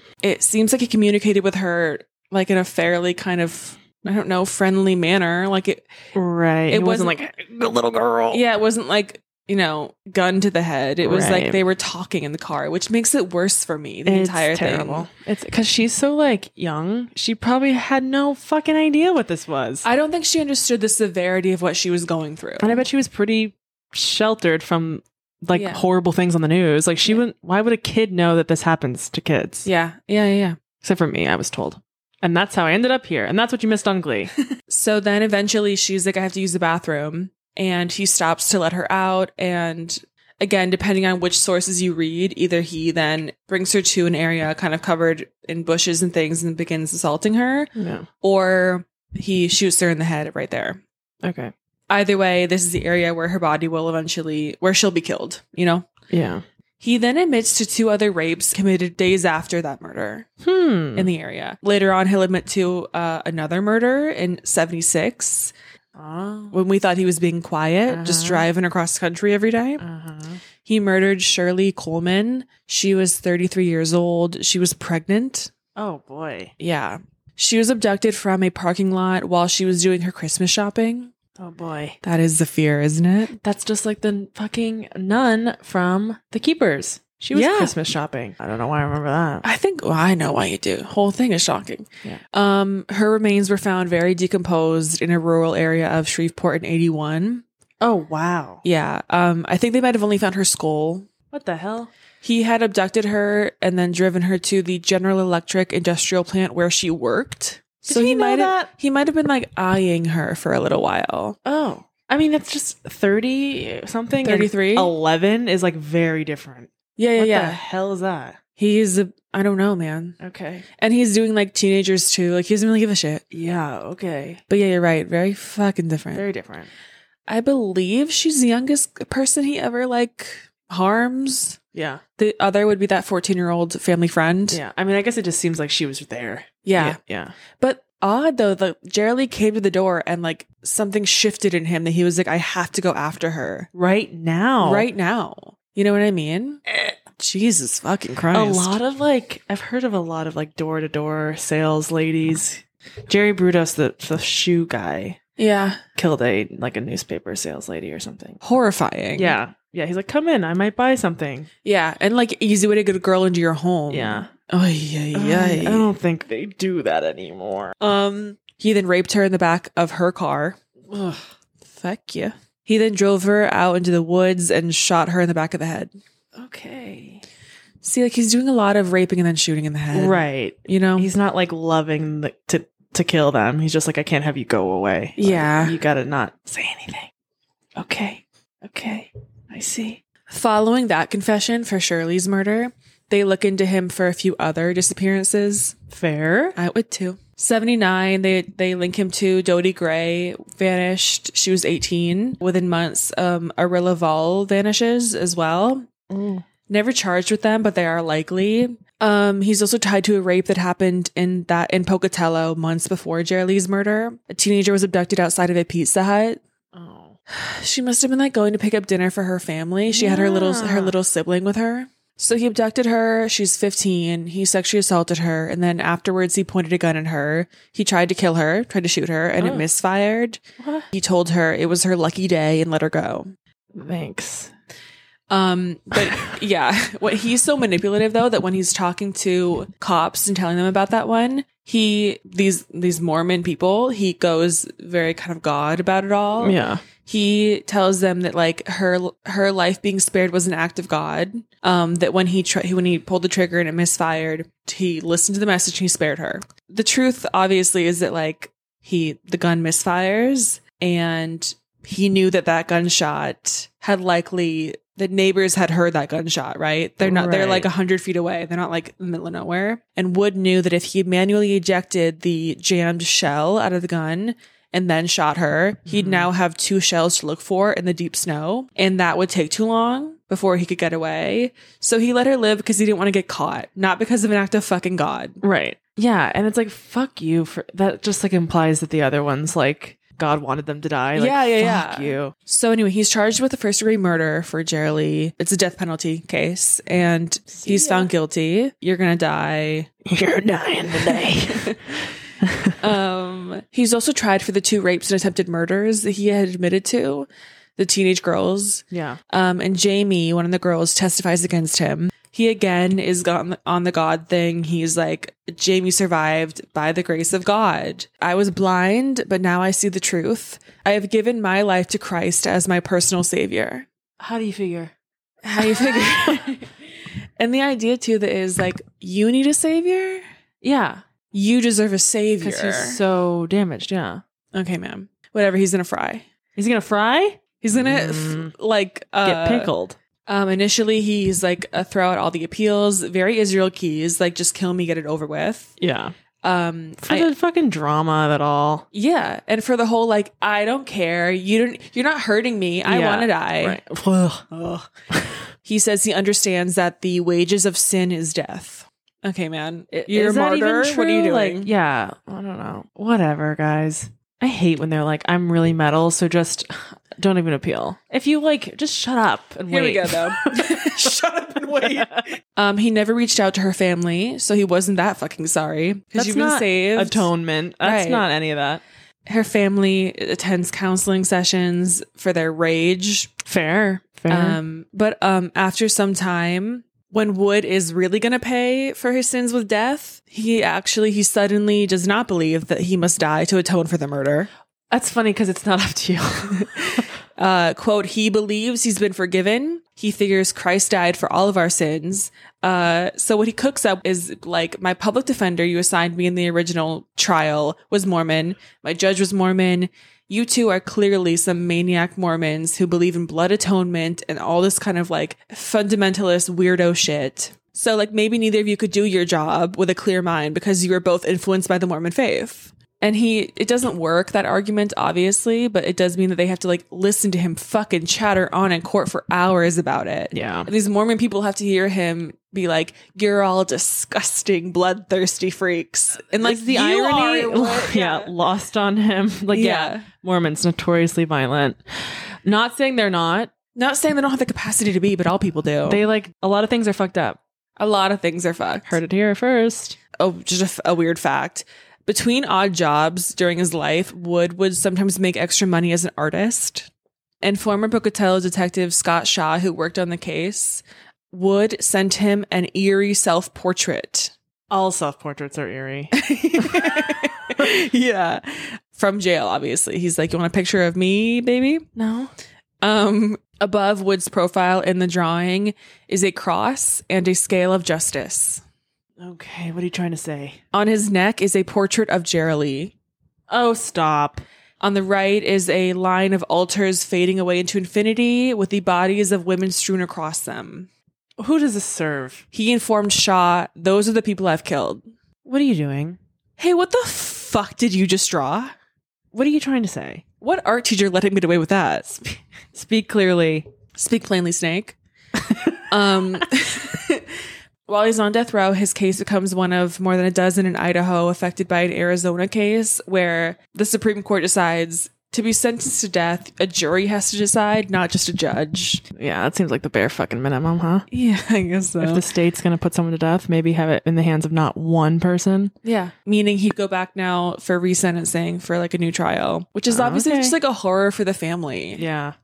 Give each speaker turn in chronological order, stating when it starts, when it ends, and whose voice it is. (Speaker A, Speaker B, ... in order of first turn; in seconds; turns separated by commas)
Speaker A: 0.2-5.9, Speaker B: 6.1-8.4, Speaker A: 6.7-7.2, Speaker A: 8.3-15.1, Speaker B: 11.0-11.6, Speaker B: 14.1-19.9, Speaker A: 19.8-22.8, Speaker B: 22.6-29.7, Speaker A: 25.5-25.8, Speaker A: 29.6-30.6, Speaker B: 30.8-34.3, Speaker A: 34.7-50.8, Speaker B: 47.8-48.1, Speaker B: 51.2-51.5, Speaker A: 51.9-55.9, Speaker B: 56.1-56.4, Speaker A: 56.8-60.3, Speaker B: 60.4-61.1, Speaker A: 61.0-65.5, Speaker B: 66.0-66.6, Speaker A: 66.5-69.8, Speaker B: 67.9-68.5, Speaker B: 69.8-70.4, Speaker A: 70.6-75.5, Speaker B: 75.8-76.5, Speaker A: 76.6-81.1, Speaker B: 81.4-82.0, Speaker A: 82.0-83.3, Speaker B: 83.3-89.4, Speaker A: 87.3-87.8, Speaker A: 89.4-97.5, Speaker B: 97.8-98.6, Speaker A: 98.6-101.1, Speaker B: 101.3-101.9, Speaker A: 102.2-111.4, Speaker B: 107.8-108.7, Speaker B: 111.5-118.4, Speaker A: 114.2-114.9, Speaker A: 117.0-117.6, Speaker A: 118.6-120.2, Speaker B: 120.2-120.7, Speaker A: 120.8-123.2, Speaker B: 123.3-124.4, Speaker A: 124.5-126.2, Speaker B: 126.1-126.7, Speaker A: 127.3-131.6, Speaker B: 131.7-132.0, Speaker A: 132.2-134.6, Speaker B: 134.5-137.3, Speaker A: 136.6-137.0, Speaker A: 137.6-143.7, Speaker B: 143.7-144.9, Speaker A: 144.6-146.6, Speaker A: 147.1-148.8, Speaker B: 148.3-155.2, Speaker A: 155.4-155.8, Speaker B: 156.0-158.4, Speaker A: 158.4-159.4, Speaker B: 159.2-161.5, Speaker A: 161.7-165.9, Speaker B: 163.9-164.3, Speaker B: 165.1-167.7, Speaker A: 167.8-170.6, Speaker B: 170.9-171.3, Speaker A: 171.7-175.9, Speaker B: 176.3-177.2, Speaker A: 177.8-181.1, Speaker B: 179.9-187.1, Speaker A: 185.2-185.8, Speaker B: 187.8-190.0, Speaker A: 190.3-195.8, Speaker B: 195.9-196.6, Speaker A: 196.6-205.9, Speaker B: 206.1-206.4, Speaker A: 206.7-216.4, Speaker B: 216.7-217.2, Speaker A: 217.3-230.4, Speaker B: 219.9-220.9, Speaker B: 229.4-229.7, Speaker B: 230.6-230.9, Speaker A: 230.9-233.3, Speaker B: 233.7-234.5, Speaker A: 235.3-285.4, Speaker B: 235.9-236.2, Speaker B: 246.4-246.8, Speaker B: 267.0-267.7, Speaker B: 275.9-276.3, Speaker B: 285.4-292.3, Speaker A: 291.1-299.9, Speaker B: 297.5-298.1, Speaker B: 300.1-301.8, Speaker A: 300.9-302.0, Speaker B: 302.4-302.8, Speaker A: 302.8-323.9, Speaker B: 308.9-309.2, Speaker B: 324.2-324.9, Speaker A: 325.4-326.7, Speaker B: 325.6-326.4, Speaker A: 327.4-330.2, Speaker B: 330.6-331.0, Speaker A: 331.3-333.0, Speaker B: 332.4-334.2, Speaker A: 334.5-336.2, Speaker B: 336.6-338.5, Speaker A: 337.6-339.7, Speaker B: 339.2-340.0, Speaker A: 340.3-345.7, Speaker B: 345.8-346.1, Speaker A: 346.4-347.3, Speaker B: 347.1-348.9, Speaker A: 348.9-353.8, Speaker B: 352.9-355.4, Speaker A: 355.6-361.7, Speaker B: 360.1-372.3, Speaker A: 369.7-377.3, Speaker B: 376.1-378.8, Speaker A: 377.8-378.3, Speaker A: 379.3-383.4, Speaker B: 383.4-384.6, Speaker A: 384.3-394.5, Speaker B: 394.9-397.1, Speaker A: 396.6-438.3, Speaker B: 430.3-430.7, Speaker B: 436.3-443.5, Speaker A: 439.5-440.1, Speaker A: 443.8-446.0, Speaker B: 445.9-447.4, Speaker A: 447.8-449.0, Speaker B: 448.9-450.0, Speaker A: 450.2-456.9, Speaker A: 457.4-464.3, Speaker B: 464.7-467.0, Speaker A: 466.1-471.9, Speaker B: 472.0-472.3, Speaker A: 472.8-478.6, Speaker B: 479.2-480.6, Speaker A: 480.7-482.9, Speaker B: 483.5-484.4, Speaker A: 484.8-490.9, Speaker B: 491.4-492.4, Speaker A: 492.5-495.0, Speaker B: 495.4-496.2, Speaker A: 496.6-498.8, Speaker B: 499.3-500.2, Speaker A: 500.4-502.4, Speaker B: 502.7-503.7, Speaker A: 504.0-505.0, Speaker B: 505.4-505.8, Speaker A: 505.9-507.3, Speaker A: 507.9-519.0, Speaker B: 519.1-521.1, Speaker A: 521.1-522.3, Speaker B: 522.0-525.7, Speaker A: 525.8-532.0, Speaker B: 529.9-530.6, Speaker B: 532.0-532.4